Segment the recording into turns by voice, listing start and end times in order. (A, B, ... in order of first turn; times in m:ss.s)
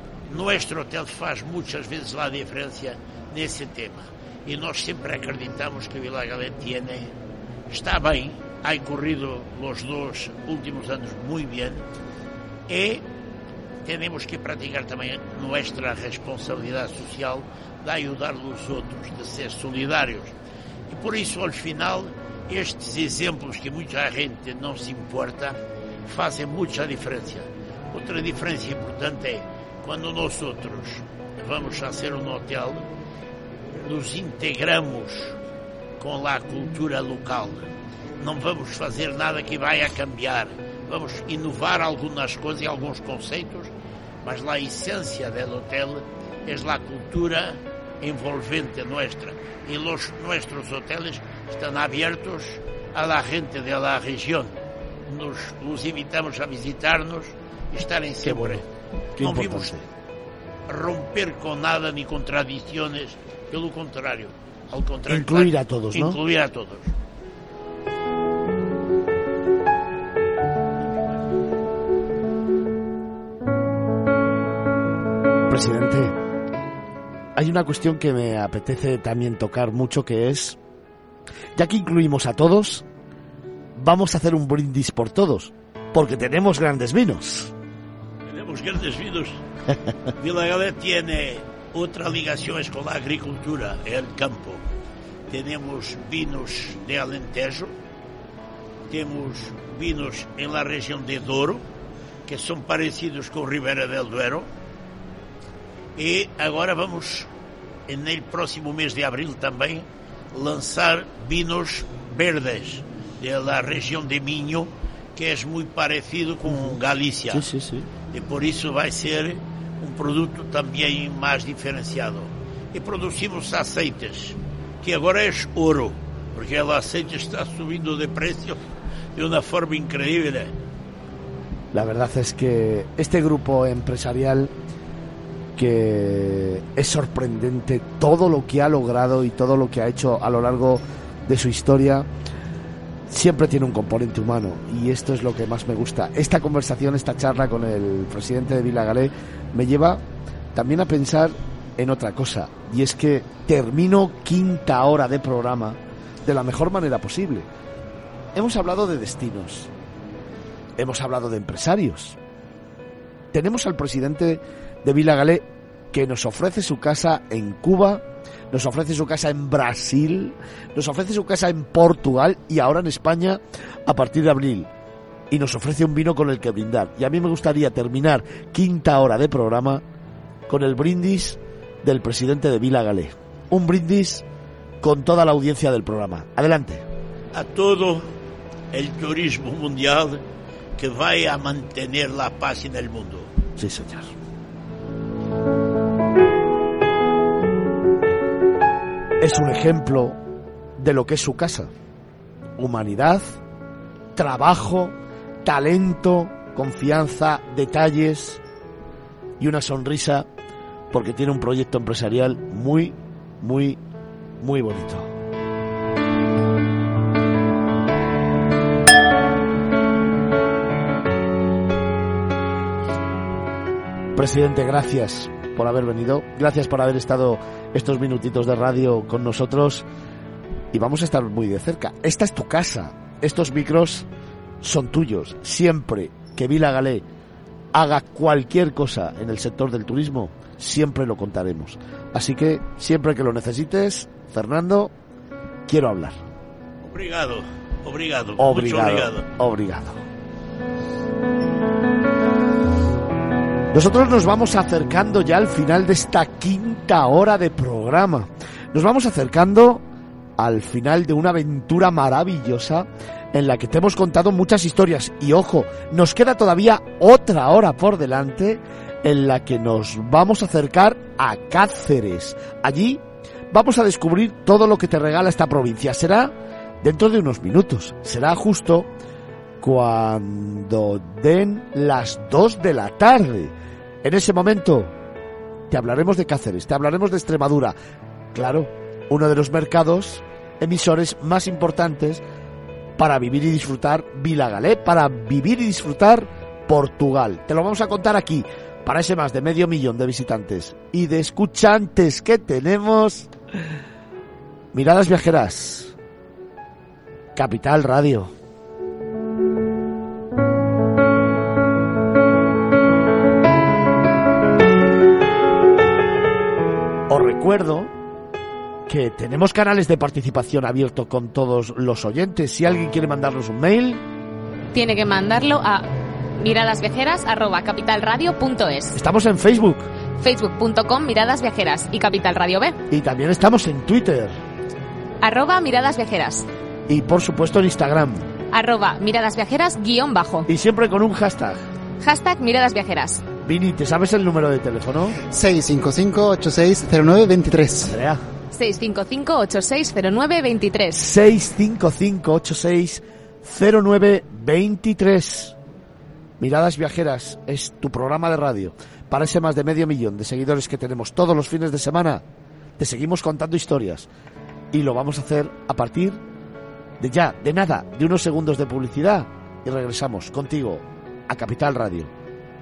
0:00.3-0:07.1 A
0:07.7-0:11.8 A
0:12.7-0:13.0 A
0:13.8-0:20.3 A
0:20.9-0:32.9 A
0:33.8-0:35.4 A
0:36.0-0:37.6 A
0:38.2-0:43.7 A
0:44.2-0:54.5 A
0:55.1-0:58.7 A
0:58.2-0:58.6 B
0:59.2-0:59.8 B
0:59.2-0:59.8 A
1:00.7-1:06.9 A
1:05.1-1:06.2 B
1:15.5-1:16.2 B
1:17.4-1:20.6 B
1:21.6-1:22.9 B
1:23.8-1:27.5 B
1:28.2-1:29.4 A
1:30.2-1:34.6 A
1:35.3-1:37.7 A
1:38.9-1:41.6 A
1:42.3-1:44.5 A
1:46.0-1:47.3 A
1:47.9-1:57.5 A
1:57.3-1:57.9 B
1:58.1-2:08.6 A
2:09.2-2:10.5 A
2:11.7-2:14.5 B
2:15.6-2:22.1 B
2:23.1-2:37.5 B
2:38.4-2:39.7 B
2:40.8-2:42.2 B
2:43.3-2:54.7 B
2:55.3-2:59.8 B
3:00.5-3:04.2 B
3:04.8-3:06.8 B
3:07.3-3:08.1 A
3:08.7-3:10.2 A
3:10.8-3:13.3 A
3:13.6-3:14.2 B
3:19.2-3:20.2 B
3:20.8-3:21.7 B
3:22.6-3:23.4 B
3:24.2-3:28.4 B
3:29.4-3:30.3 B
3:30.9-3:33.8 B
3:34.4-3:35.1 B
3:44.2-3:49.9 B
3:50.7-3:54.1 B
3:54.6-3:57.0 B
3:57.7-4:04.9 B
4:05.7-4:06.2 B
4:06.8-4:09.3 A
4:08.4-4:10.0 B
4:13.7-4:19.8 B
4:20.4-4:38.9 B
4:39.6-4:44.9 B
4:45.7-4:47.8 B
4:48.3-4:52.2 B
4:53.0-5:03.3 B
5:04.7-5:06.0 B
5:07.4-5:08.3 B
5:17.1-5:17.9 B
5:18.9-5:24.0 B
5:24.7-5:25.9 C
5:26.4-5:29.0 C
5:29.0-5:29.9 B
5:30.2-5:32.8 C
5:32.9-5:34.4 B
5:35.2-5:36.5 C
5:36.9-5:38.3 B
5:38.5-5:40.5 C
5:40.5-5:41.6 B
5:42.0-5:43.2 C
5:43.4-5:45.2 B
5:45.2-5:48.0 D
5:47.8-5:48.2 B
5:48.5-5:51.0 C
5:51.0-5:55.6 B
5:56.4-6:02.2 B
6:02.8-6:04.1 B
6:04.7-6:06.2 B
6:07.0-6:12.1 B